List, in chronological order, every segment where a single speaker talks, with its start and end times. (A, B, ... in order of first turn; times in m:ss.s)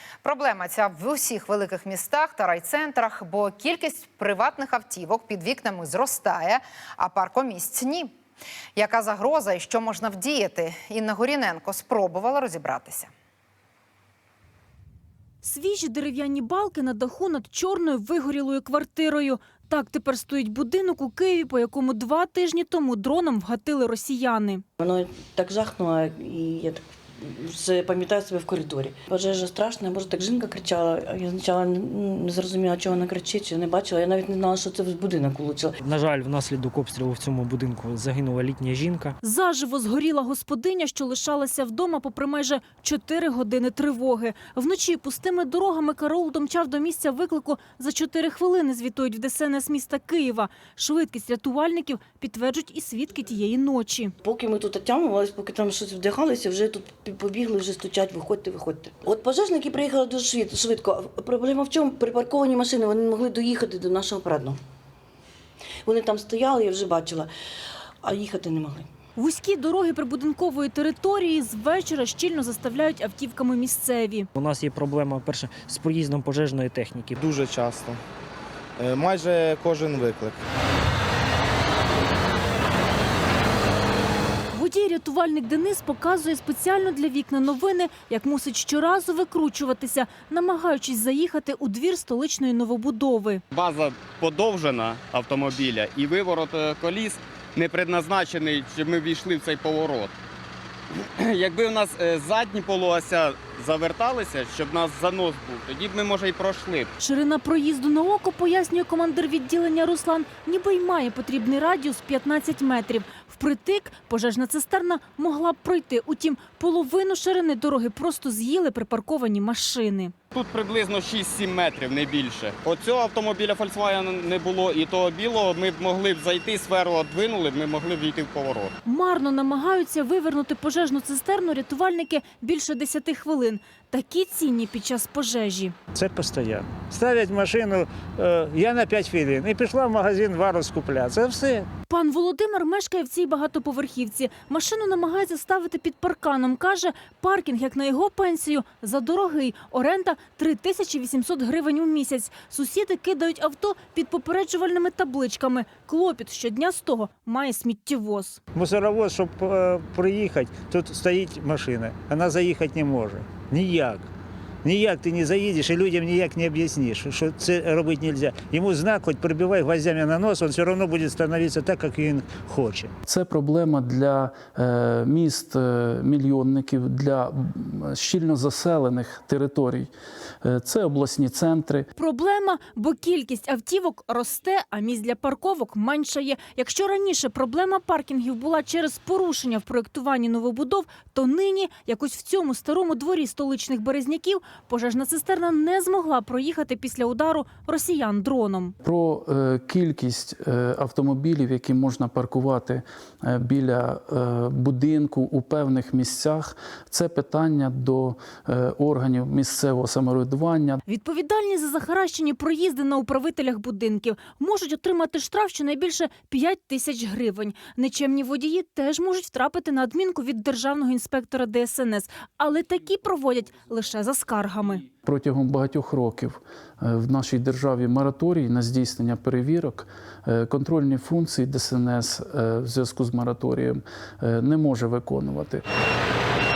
0:00.2-0:08.1 A
0:08.8-0:13.1 A
0:15.4-0:24.6 B
0:24.8-0:35.8 C
0:35.8-0:39.2 D
0:39.2-0:54.1 B
0:54.2-1:04.6 C
1:05.8-1:07.3 C
1:08.0-1:08.9 C
1:09.2-1:14.3 B
1:14.4-1:17.2 D
1:17.2-1:18.0 E
1:18.8-1:20.4 E
1:24.5-1:33.4 B
1:33.5-1:40.1 F
1:40.9-1:46.9 F
1:47.0-2:00.1 B
2:00.3-2:08.7 F
2:08.8-2:15.8 B
2:15.9-2:21.7 G
2:21.9-2:38.4 B
2:38.5-2:44.1 G
2:44.6-2:52.9 G
2:53.1-2:59.9 H
3:00.4-3:01.9 H
3:02.0-3:18.8 B
3:18.8-3:30.8 H
3:30.9-3:44.8 B
3:45.0-3:55.6 H